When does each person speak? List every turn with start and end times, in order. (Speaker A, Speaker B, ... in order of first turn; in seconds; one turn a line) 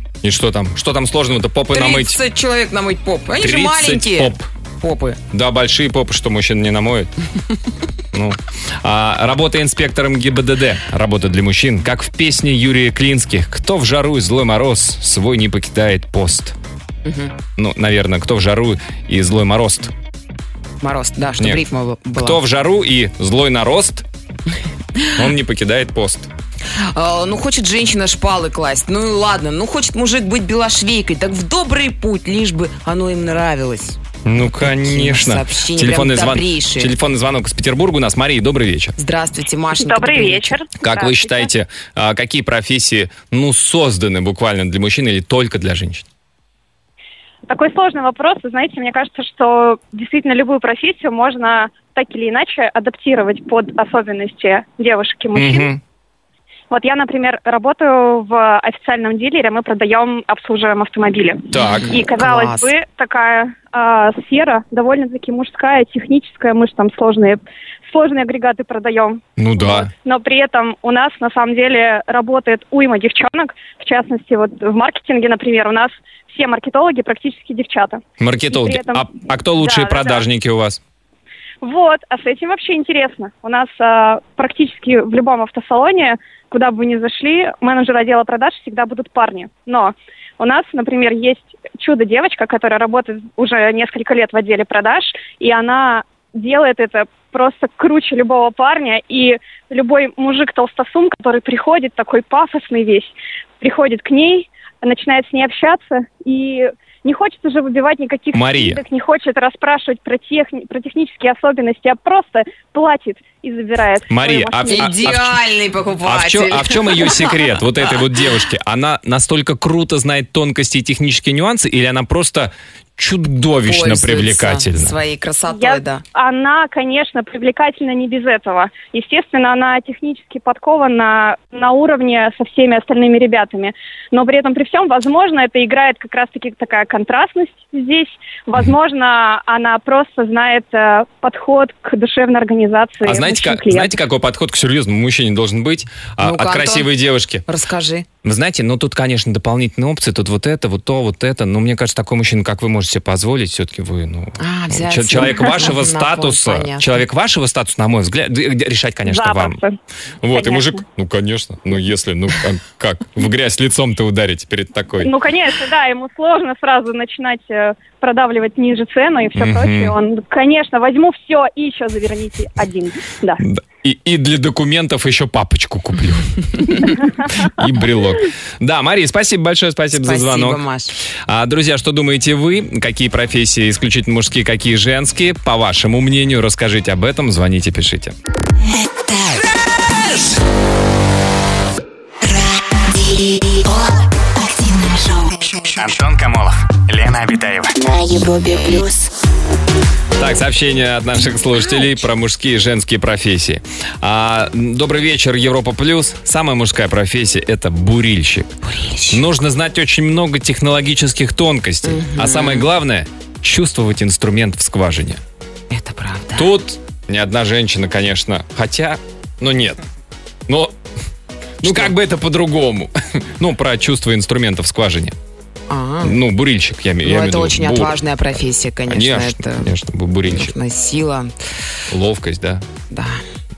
Speaker A: 0.2-2.2
Speaker B: 1.7-5.2
Speaker A: 3.4-4.5
Speaker A: 5.3-7.1
Speaker A: 8.1-16.5
Speaker B: 17.0-17.3
Speaker A: 17.6-19.9
Speaker B: 20.8-22.4
Speaker A: 21.4-21.6
Speaker A: 22.1-24.1
Speaker A: 25.1-26.3
Speaker B: 26.9-34.0
Speaker A: 34.2-39.0
Speaker B: 34.6-36.9
Speaker B: 39.0-40.6
Speaker C: 39.7-41.5
Speaker A: 40.8-46.0
Speaker C: 47.5-55.7
Speaker A: 55.3-55.8
Speaker C: 56.7-80.3
Speaker A: 61.5-62.0
Speaker B: 61.8-62.7
Speaker A: 69.4-69.9
Speaker A: 78.2-80.8
Speaker C: 81.6-115.1
Speaker A: 108.3-108.8
Speaker A: 114.1-115.4
Speaker B: 114.7-117.3
Speaker A: 116.0-124.9
Speaker B: 123.6-126.0
Speaker C: 125.5-144.0
Speaker A: 143.0-147.4
Speaker B: 146.2-146.9
Speaker B: 147.4-148.1
Speaker A: 148.2-159.6
Speaker B: 154.4-157.0
Speaker C: 159.1-159.8
Speaker A: 160.2-165.1
Speaker C: 160.3-160.8
Speaker C: 165.0-173.4
Speaker A: 169.3-169.9
Speaker A: 173.4-180.6
Speaker B: 179.9-180.9
Speaker A: 181.2-188.1
Speaker D: 192.2-195.7
Speaker E: 195.7-197.7
Speaker D: 197.8-199.1
Speaker A: 200.2-208.6
Speaker B: 208.6-209.2
Speaker A: 209.1-215.2
Speaker B: 211.8-212.7
Speaker B: 215.7-216.5
Speaker A: 216.3-219.8
Speaker A: 220.5-220.7
Speaker A: 221.6-225.1
Speaker B: 221.6-221.9
Speaker B: 225.7-226.2
Speaker A: 226.0-228.0
Speaker B: 227.0-229.8
Speaker A: 228.9-230.5
Speaker B: 230.3-231.3
Speaker A: 231.9-232.6
Speaker B: 232.9-233.2